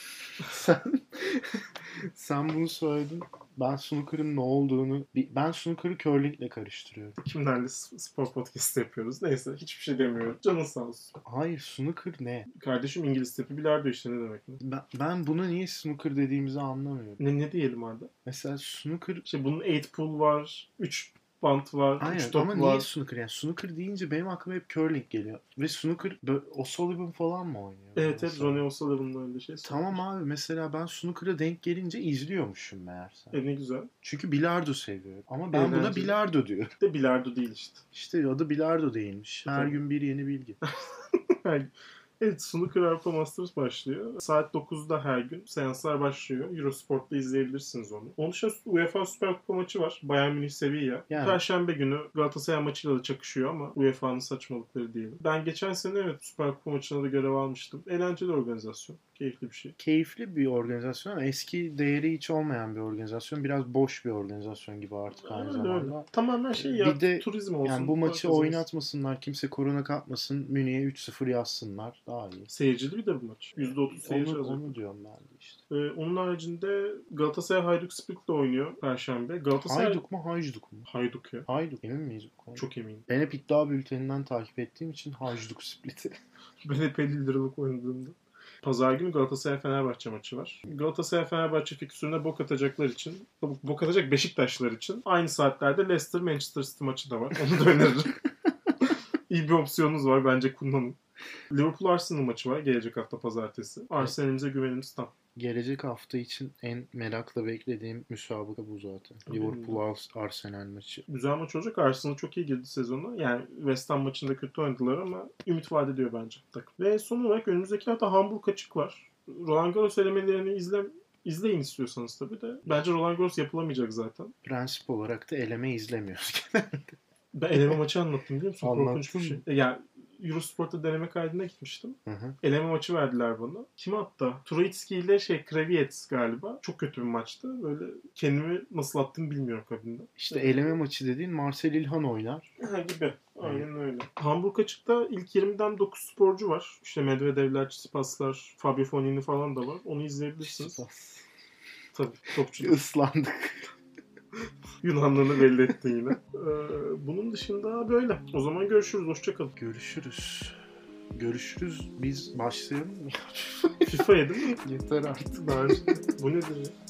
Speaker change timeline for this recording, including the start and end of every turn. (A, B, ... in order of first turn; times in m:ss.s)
0:00.4-0:07.2 A
0:07.2-0:11.1 B
0:11.3-0:12.5 A
0:12.5-0:14.6 B
0:14.6-0:17.2 A
0:17.2-0:18.1 B
0:18.2-0:19.2 A
0:19.2-0:22.9 B
0:22.0-0:28.7 A
0:28.0-0:30.0 B
0:29.6-0:33.4 A
0:33.3-0:33.9 B
0:34.0-0:36.7 A
0:35.5-0:36.2 B
0:36.8-0:37.8 B
0:37.9-0:40.6 A
0:39.5-0:39.8 B
0:40.6-0:59.8 B
0:51.1-0:51.4 A
0:59.8-1:12.5 A
1:05.2-1:08.7 B
1:12.5-1:14.7 B
1:13.6-1:15.6 A
1:15.7-1:20.0 B
1:19.6-1:20.9 A
1:20.9-1:21.5 B
1:21.5-1:26.1 A
1:22.6-1:23.1 B
1:26.6-1:38.2 B
1:39.3-1:41.0 B
1:41.5-1:45.1 B
1:45.4-1:51.0 A
1:49.3-1:49.8 B
1:51.1-2:04.3 B
2:04.4-2:06.9 A
2:07.3-2:20.6 B
2:08.6-2:09.4 A
2:12.1-2:12.4 A
2:20.2-2:22.5 A
2:22.6-2:30.8 B
2:23.4-2:23.7 A
2:30.4-2:31.2 A
2:31.9-2:32.8 B
2:32.6-2:33.7 A
2:34.8-2:39.6 B
2:39.6-2:40.6 A
2:41.1-2:46.0 A
2:43.9-2:44.6 B
2:45.4-2:46.7 B